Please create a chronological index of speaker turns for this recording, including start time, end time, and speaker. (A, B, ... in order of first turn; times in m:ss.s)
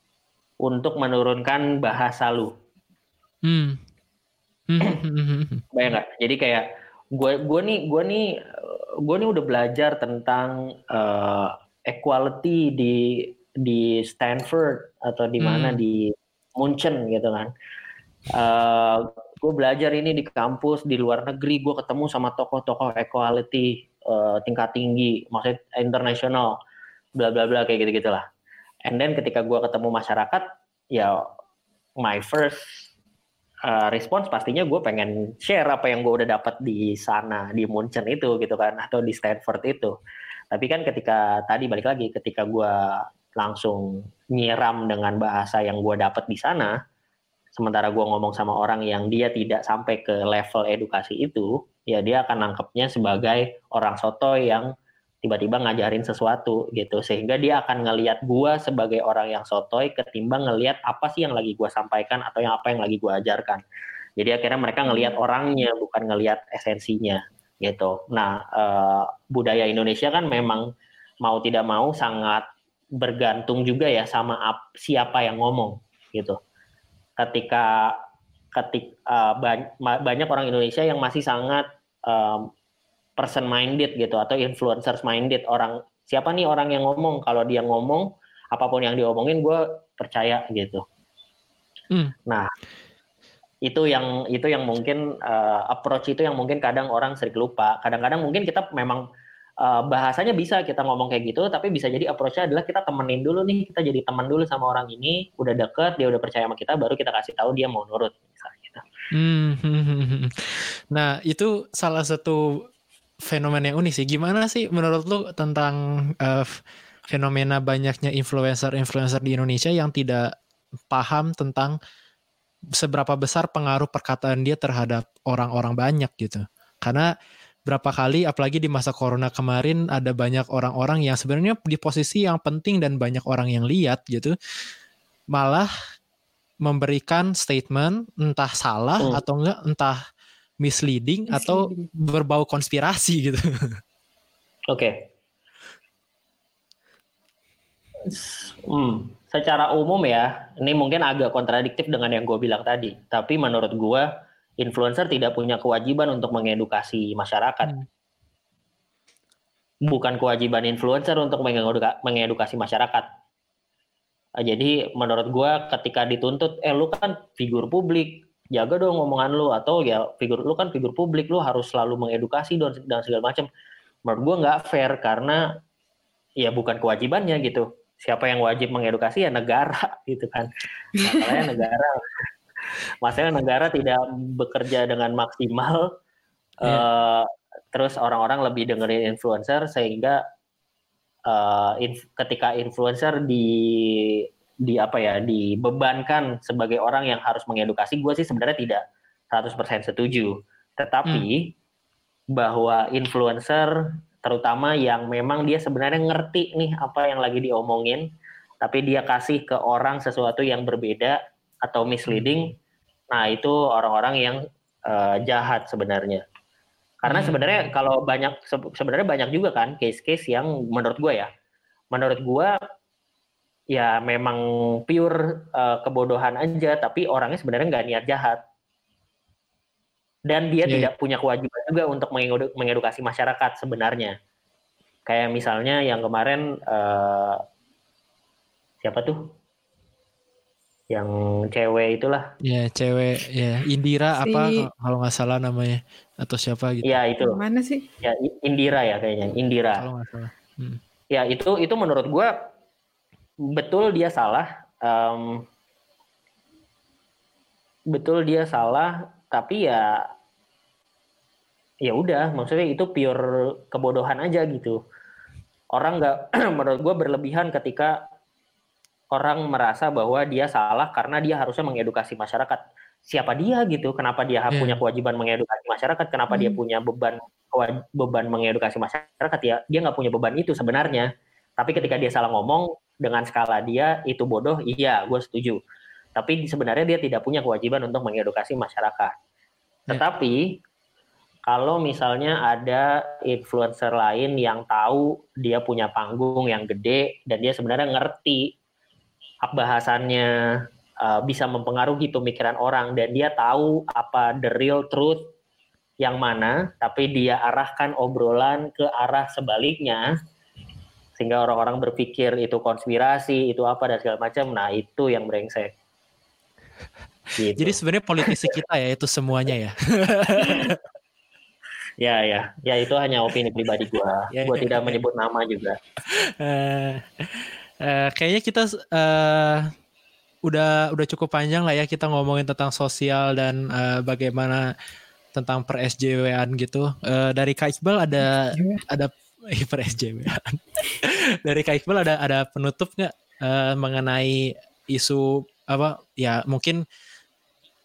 0:00.6-0:02.5 A
0:03.4-0:03.8 B
0:04.7-0:05.7 B
0:05.7-0:17.5 A
0:15.4-0:15.8 B
0:18.3-0:26.6 A
0:27.2-0:28.2 A
0:28.9-0:31.2 A
0:32.0-0:32.9 A
0:33.6-0:40.0 A
0:40.5-0:46.8 A
0:47.5-0:54.7 A
0:55.2-1:03.6 A
1:04.2-1:10.7 A
1:04.9-1:05.2 C
1:11.2-1:12.4 A
1:13.0-1:16.4 A
1:17.2-1:18.0 A
1:18.5-1:22.5 A
1:23.2-1:30.8 A
1:33.6-1:39.0 A
1:39.6-1:48.8 A
1:49.1-1:52.7 B
1:53.2-2:00.3 B
2:00.9-2:01.8 B
2:02.7-2:07.1 B
2:07.6-2:14.3 B
2:15.3-2:15.7 B
2:16.6-2:20.0 B
2:20.6-2:23.8 B
2:21.3-2:21.9 C
2:24.7-2:25.0 A
2:28.0-2:34.1 A
2:34.6-2:37.7 A
2:39.9-2:43.1 A
2:44.4-2:53.5 A
2:54.0-2:55.4 A
2:56.4-3:01.9 A
3:03.0-3:05.9 A
3:06.6-3:10.2 A
3:11.3-3:21.5 A
3:22.3-3:28.1 A
3:28.6-3:32.5 A
3:32.1-3:32.4 B
3:33.1-3:36.2 A
3:37.0-3:41.3 A
3:37.1-3:37.7 B
3:41.9-3:42.6 A
3:43.7-3:48.4 A
3:50.3-3:54.2 A
3:55.0-3:57.4 A
3:58.8-3:59.3 A
4:00.9-4:02.3 A
4:02.4-4:07.0 B
4:04.2-4:04.6 C
4:06.8-4:07.4 A
4:07.2-4:07.9 C
4:08.0-4:09.8 A
4:09.8-4:10.8 B
4:11.1-4:12.3 A
4:13.5-4:15.4 A
4:17.9-4:20.1 A
4:21.8-4:24.8 A
4:25.7-4:28.0 A
4:29.1-4:45.6 A
4:34.5-4:34.8 B
4:36.3-4:36.6 C
4:41.7-4:42.0 B
4:46.2-4:49.1 A
4:49.9-4:50.6 A
4:51.5-4:58.5 A
4:59.4-5:05.3 A
5:06.0-5:10.1 A
5:11.2-5:15.7 A
5:17.4-5:18.5 A
5:17.6-5:20.8 B
5:22.0-5:25.8 A
5:24.3-5:25.0 B
5:26.0-5:29.7 B
5:30.4-5:34.7 B
5:35.3-5:46.8 B
5:38.5-5:38.8 C